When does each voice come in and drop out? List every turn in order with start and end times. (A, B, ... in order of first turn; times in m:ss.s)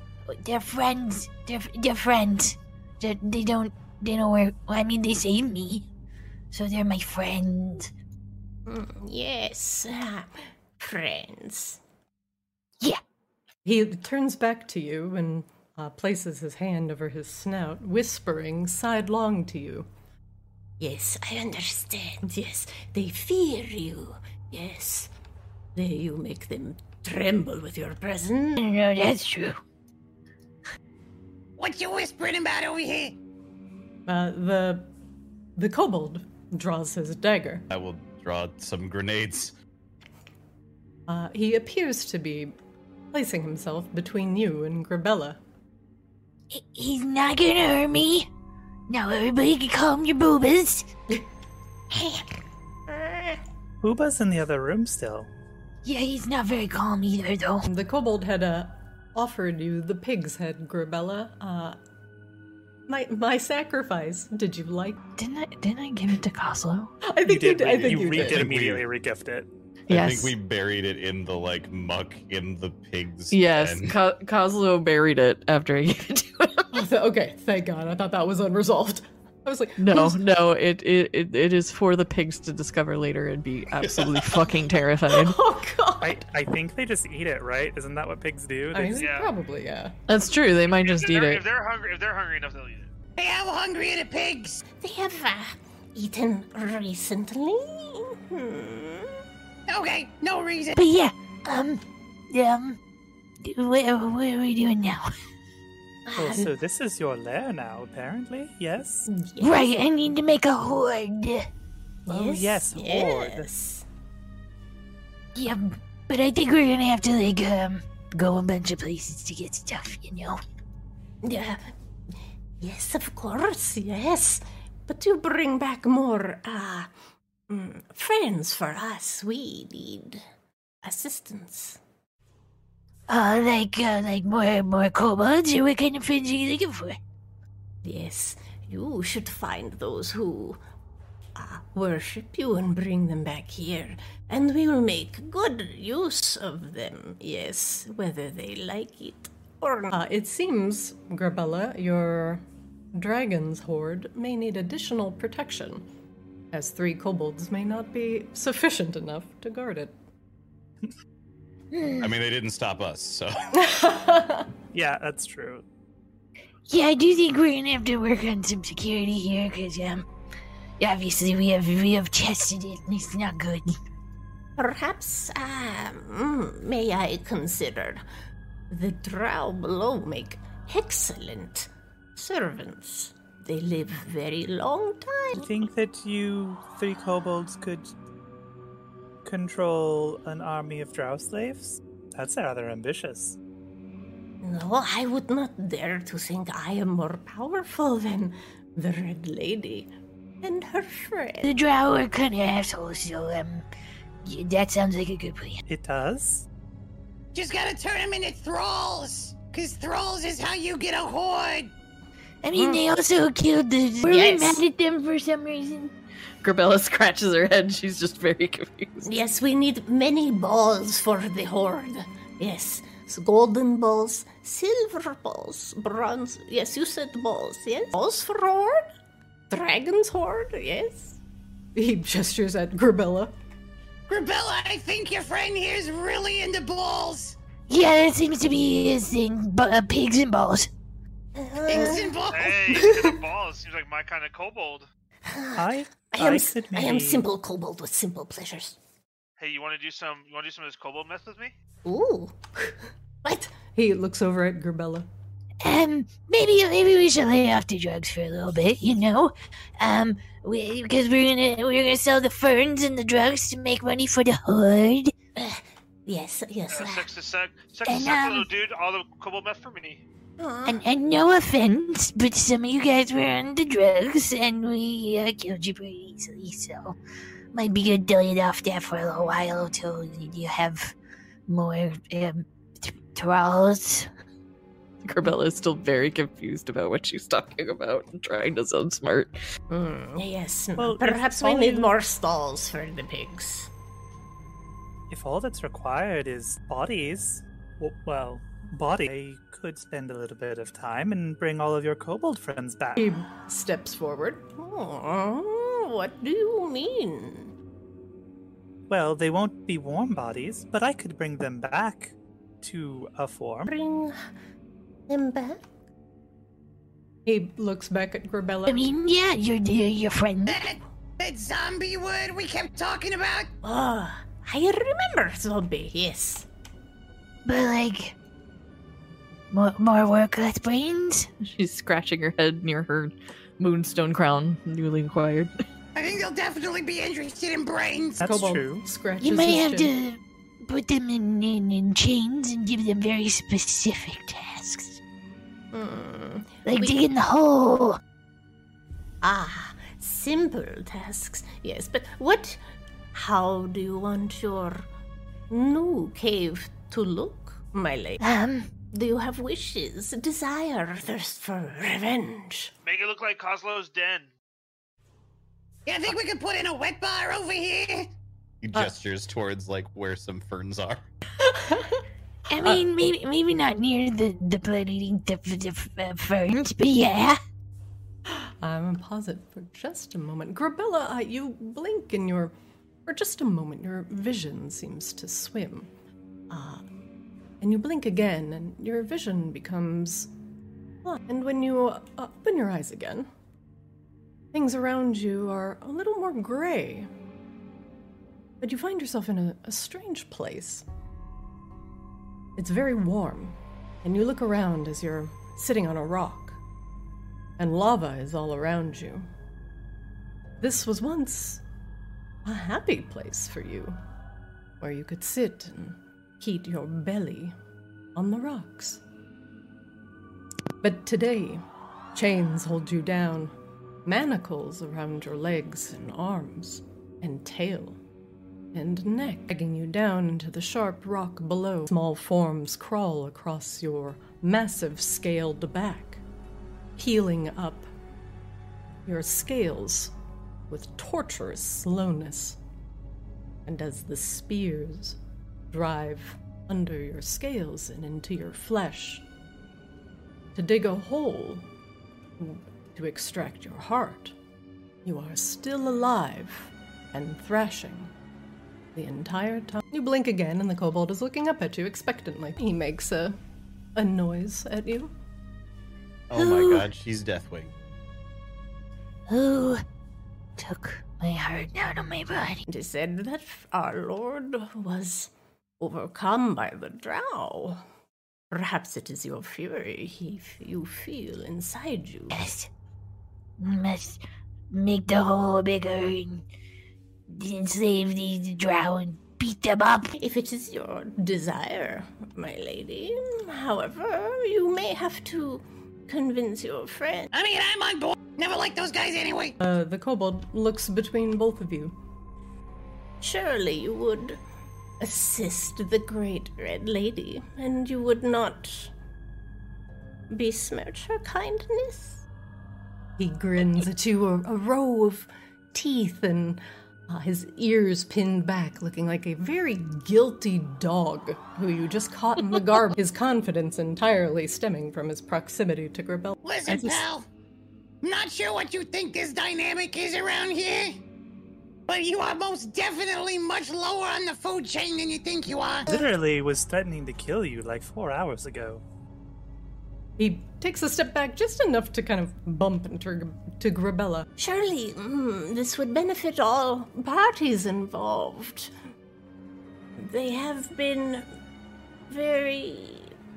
0:00.3-0:05.9 A
0:06.5-0:07.9 A
0:08.6-0:11.8 B
0:13.6-0:19.9 C
0:20.8-0:25.1 B
0:25.8-0:28.6 B
0:28.6-0:29.6 A
0:31.6-0:33.2 D
0:34.1-0:34.9 C
0:35.6-0:37.6 C
0:37.7-0:39.6 E
0:41.1-0:42.5 C
0:43.1-0:45.4 C
0:46.5-0:48.3 A
0:48.9-0:50.9 A
0:52.9-0:53.4 B
0:53.8-0:55.3 F
0:55.8-0:57.6 A
0:57.7-1:01.8 C
1:02.9-1:05.0 C
1:05.2-1:06.9 G
1:07.0-1:08.4 C
1:07.2-1:09.5 F
1:07.7-1:08.9 E
1:09.9-1:10.3 G
1:09.9-1:13.9 E
1:13.3-1:16.7 G
1:16.7-1:20.2 C
1:19.8-1:25.4 G
1:25.1-1:26.2 C
1:26.0-1:29.1 F
1:28.7-1:30.0 C
1:29.0-1:29.3 H
1:30.1-1:31.4 G
1:30.7-1:32.9 H
1:33.2-1:34.6 D
1:34.8-1:39.2 B
1:39.7-1:40.8 D
1:40.8-1:42.8 A
1:43.4-1:45.1 A
1:46.0-1:46.5 B
1:46.1-1:49.1 F
1:49.1-1:49.6 B
1:49.4-1:51.5 A
1:52.0-1:53.8 B
1:52.1-1:53.5 F
1:55.4-2:00.4 A
2:01.2-2:01.6 B
2:02.6-2:06.9 B
2:07.5-2:10.2 B
2:10.8-2:11.8 B
2:13.1-2:17.0 A
2:17.8-2:20.6 B
2:21.4-2:29.9 B
2:29.9-2:32.4 C
2:32.9-2:35.8 C
2:36.5-2:39.9 C
2:41.7-2:42.1 A
2:42.0-2:43.5 E
2:43.5-2:44.5 C
2:44.7-2:45.6 F
2:46.7-2:50.0 A
2:50.8-2:53.7 A
2:54.6-2:58.0 B
2:58.7-3:05.5 B
3:05.4-3:07.9 F
3:09.2-3:13.4 F
3:14.4-3:21.5 B
3:21.4-3:23.6 A
3:24.2-3:25.6 A
3:25.7-3:26.5 F
3:27.3-3:31.7 D
3:32.4-3:35.9 A
3:32.5-3:32.8 B
3:34.0-3:34.6 B
3:36.4-3:39.1 G
3:39.0-3:48.8 B
3:49.5-3:51.2 B
3:51.8-3:53.3 C
3:54.1-3:57.4 D
3:57.7-4:00.7 A
4:01.4-4:02.2 B
4:01.6-4:02.7 D
4:02.3-4:04.9 H
4:02.7-4:03.1 B
4:05.2-4:08.8 B
4:05.5-4:07.2 F
4:09.4-4:11.5 H
4:11.8-4:12.7 B
4:13.5-4:15.1 C
4:15.6-4:25.1 A
4:25.4-4:27.1 B
4:26.7-4:30.0 H
4:27.8-4:28.5 A
4:30.4-4:30.8 B
4:30.6-4:37.0 A
4:37.5-4:40.9 A
4:41.5-4:44.1 A
4:45.0-4:49.4 G
4:49.7-4:53.7 B
4:50.8-4:51.9 F
4:55.1-5:03.1 F
5:03.0-5:04.5 C
5:04.6-5:07.5 B
5:08.9-5:13.8 F
5:13.7-5:14.2 B
5:15.1-5:15.6 B
5:17.2-5:18.8 C
5:18.7-5:20.6 A
5:20.5-5:23.5 D
5:23.6-5:26.5 B
5:27.4-5:28.1 A
5:29.5-5:31.3 A
5:31.4-5:35.5 G
5:35.9-5:38.2 D
5:38.2-5:38.8 F
5:38.2-5:39.9 C
5:39.2-5:45.0 A
5:45.7-5:47.0 B
5:46.6-5:48.0 A
5:49.2-5:52.6 B
5:53.1-5:54.9 B
5:55.5-5:58.2 B
5:58.2-5:58.7 A
5:58.9-6:02.7 B
6:02.8-6:04.3 H
6:05.9-6:08.1 D
6:08.6-6:11.0 E
6:12.5-6:17.4 A
6:18.2-6:22.5 C
6:23.0-6:25.9 C
6:26.5-6:26.8 C
6:27.6-6:30.3 C
6:31.0-6:33.3 C
6:34.5-6:37.1 C
6:38.6-6:40.8 C
6:42.6-6:46.6 C
6:47.6-6:49.3 C
6:50.6-6:51.6 C
6:52.4-6:54.0 C
6:54.8-6:57.5 C
6:58.1-6:59.0 C
7:00.8-7:01.6 C
7:02.1-7:03.5 C
7:04.0-7:08.0 C
7:08.7-7:16.2 C
7:17.0-7:17.9 C
7:19.0-7:20.1 C
7:20.7-7:22.6 C
7:23.6-7:25.2 C
7:25.7-7:29.2 C
7:30.5-7:31.6 C
7:32.4-7:34.4 C
7:35.0-7:38.1 C
7:38.9-7:43.4 C
7:44.0-7:45.1 C
7:46.3-7:47.7 E
7:46.4-7:46.9 A
7:49.3-7:49.8 A
7:50.6-7:52.6 A
7:52.7-7:57.8 B
7:58.5-8:02.4 B
8:02.3-8:02.7 A
8:03.6-8:06.4 A
8:07.3-8:10.1 A
8:10.2-8:17.3 B
8:17.3-8:19.6 D
8:19.6-8:21.9 C
8:23.2-8:24.4 B
8:25.0-8:28.9 B
8:30.3-8:32.2 B
8:33.2-8:46.4 C
8:46.4-8:47.2 D
8:46.7-8:47.0 F
8:48.0-8:51.0 D
8:51.9-8:55.9 D
8:55.9-8:58.8 F
9:00.2-9:04.3 C
9:04.4-9:08.7 B
9:10.0-9:11.3 B
9:12.1-9:13.1 B